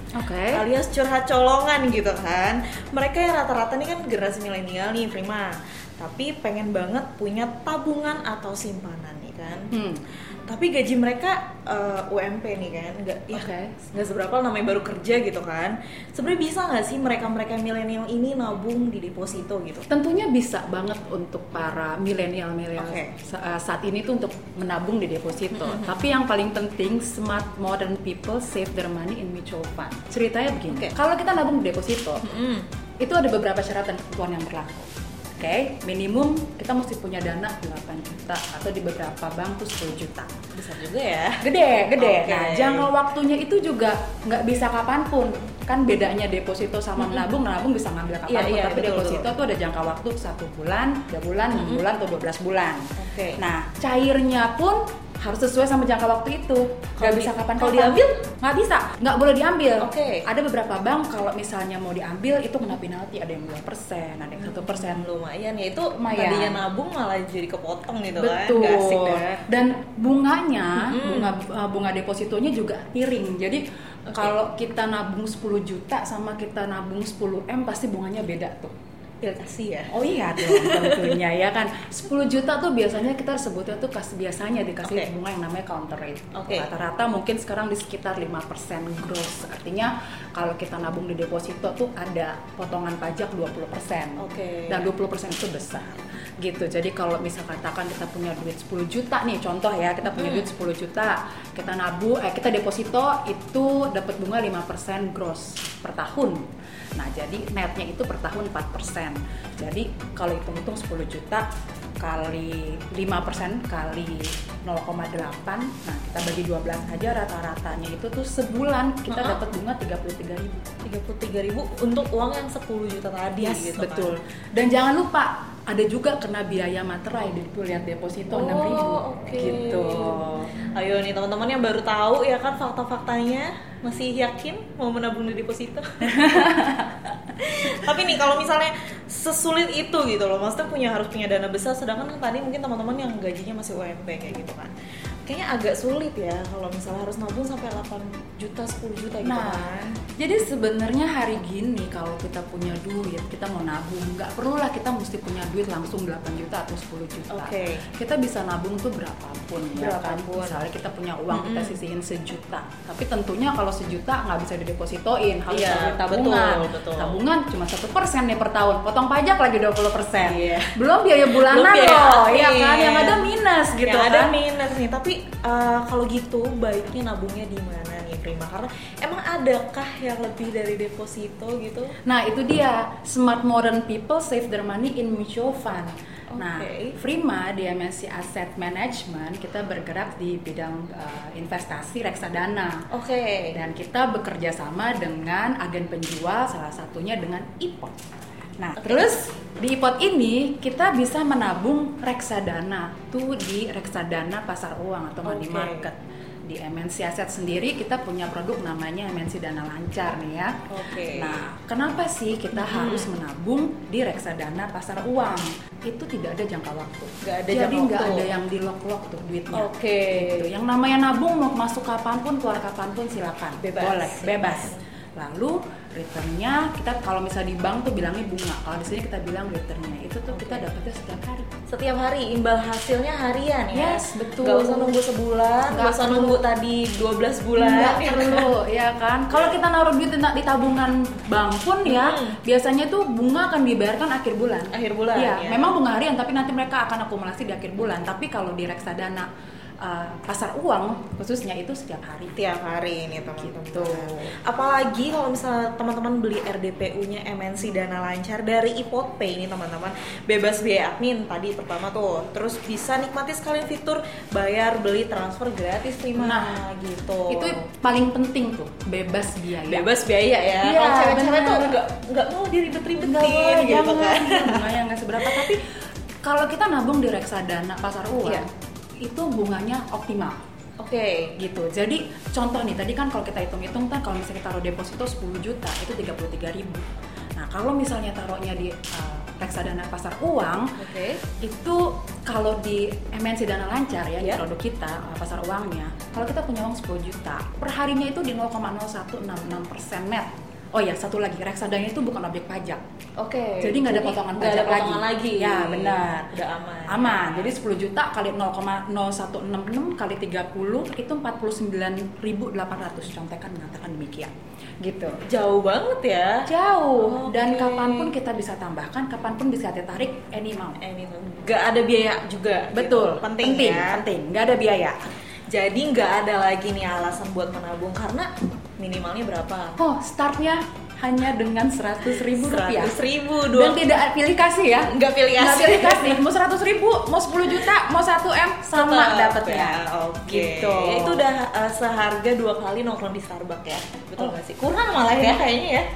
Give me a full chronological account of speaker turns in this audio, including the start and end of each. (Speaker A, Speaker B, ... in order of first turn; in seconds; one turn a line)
Speaker A: 0.1-0.6
Speaker B: 0.5-9.8
Speaker A: 9.7-10.0
Speaker B: 10.5-19.9
Speaker A: 13.3-13.7
Speaker A: 19.9-32.2
Speaker B: 22.8-23.1
Speaker B: 25.5-26.1
Speaker B: 30.7-30.9
Speaker B: 32.2-32.7
Speaker A: 33.0-40.3
Speaker B: 40.5-41.4
Speaker A: 41.4-52.8
Speaker B: 42.0-42.9
Speaker B: 47.0-47.3
Speaker B: 48.3-49.3
Speaker B: 51.5-51.8
Speaker B: 53.0-53.4
Speaker A: 53.4-65.1
Speaker B: 57.0-58.2
Speaker B: 59.8-60.2
Speaker B: 64.4-69.5
Speaker A: 66.0-66.6
Speaker A: 68.2-78.7
Speaker B: 70.8-71.3
Speaker B: 74.1-74.3
Speaker B: 79.2-81.2
Speaker A: 79.9-106.4
Speaker B: 84.8-85.1
Speaker B: 86.3-86.7
Speaker B: 94.2-94.9
Speaker B: 100.1-100.5
Speaker A: 107.0-111.5
Speaker A: 112.0-120.7
Speaker B: 119.1-119.4
Speaker B: 120.8-124.1
Speaker A: 123.4-130.5
Speaker B: 128.3-136.6
Speaker A: 136.1-137.0
Speaker B: 137.4-144.7
Speaker B: 145.2-150.0
Speaker A: 149.2-174.4
Speaker B: 157.3-157.8
Speaker B: 159.8-160.6
Speaker B: 161.3-161.8
Speaker B: 165.5-167.2
Speaker B: 170.2-170.7
Speaker B: 171.3-173.3
Speaker B: 173.8-181.9
Speaker A: 182.1-192.8
Speaker B: 186.3-186.9
Speaker B: 192.9-193.6
Speaker A: 193.5-197.9
Speaker A: 198.6-210.6
Speaker B: 198.8-199.1
Speaker B: 205.2-205.9
Speaker B: 210.7-211.5
Speaker A: 211.1-231.5
Speaker B: 212.5-213.1
Speaker B: 217.2-218.4
Speaker B: 219.5-220.5
Speaker B: 223.6-224.8
Speaker B: 230.3-230.7
Speaker B: 231.7-238.5
Speaker A: 233.7-235.0
Speaker A: 235.7-236.4
Speaker A: 237.6-249.3
Speaker B: 241.8-242.4
Speaker B: 244.7-245.7
Speaker A: 249.8-252.4
Speaker B: 252.3-267.6
Speaker A: 253.4-254.3
Speaker A: 266.2-266.6
Speaker A: 267.3-269.9
Speaker B: 269.7-274.7
Speaker A: 270.6-271.8
Speaker A: 272.9-275.7
Speaker A: 276.2-278.5
Speaker B: 278.2-278.5
Speaker A: 279.0-280.4
Speaker B: 280.8-281.4
Speaker A: 281.4-290.6
Speaker B: 290.8-291.2
Speaker A: 291.4-302.8
Speaker B: 303.2-307.5
Speaker A: 303.6-306.3
Speaker A: 306.9-314.3
Speaker A: 314.8-315.2
Speaker B: 315.3-316.5
Speaker A: 316.5-320.8
Speaker B: 317.0-318.1
Speaker B: 320.8-324.0
Speaker A: 322.7-325.0
Speaker B: 325.5-329.8
Speaker A: 329.8-333.0
Speaker B: 332.2-333.9
Speaker A: 333.5-341.2
Speaker B: 334.9-336.2
Speaker B: 338.7-345.9
Speaker A: 344.9-345.4